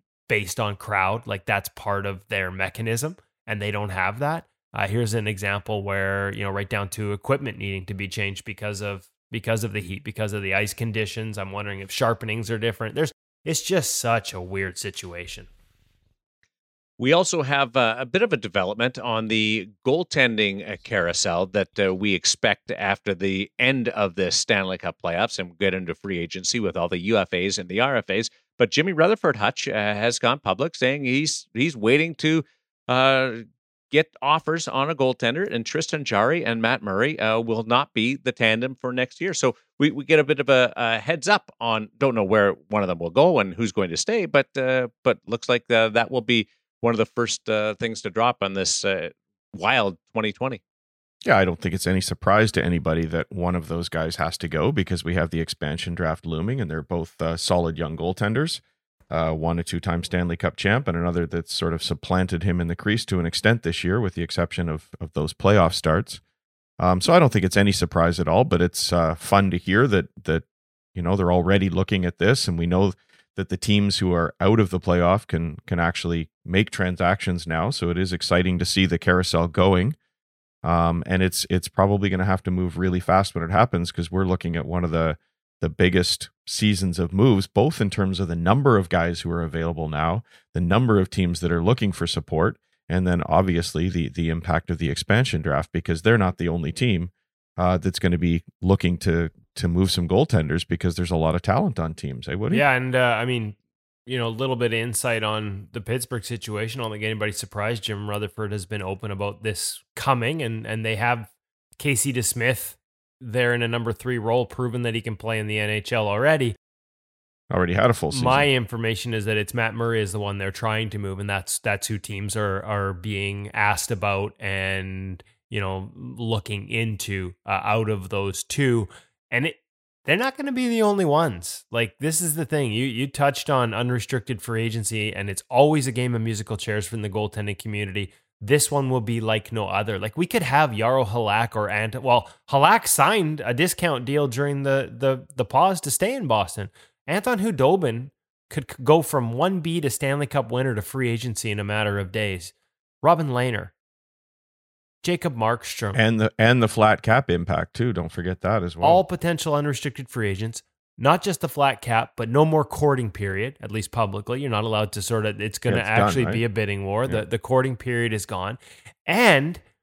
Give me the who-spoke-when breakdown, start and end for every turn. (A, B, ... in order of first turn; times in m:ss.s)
0:00.3-0:15.5 A
0:17.0-0:50.6 B
0:51.2-1:06.2 C
1:06.8-1:20.0 C
1:20.6-1:42.6 C
1:42.5-1:56.5 A
1:57.5-1:58.5 C
1:58.1-2:33.7 A
2:35.0-2:36.0 A
2:35.9-2:39.0 C
2:38.8-2:49.6 A
2:45.7-2:46.4 C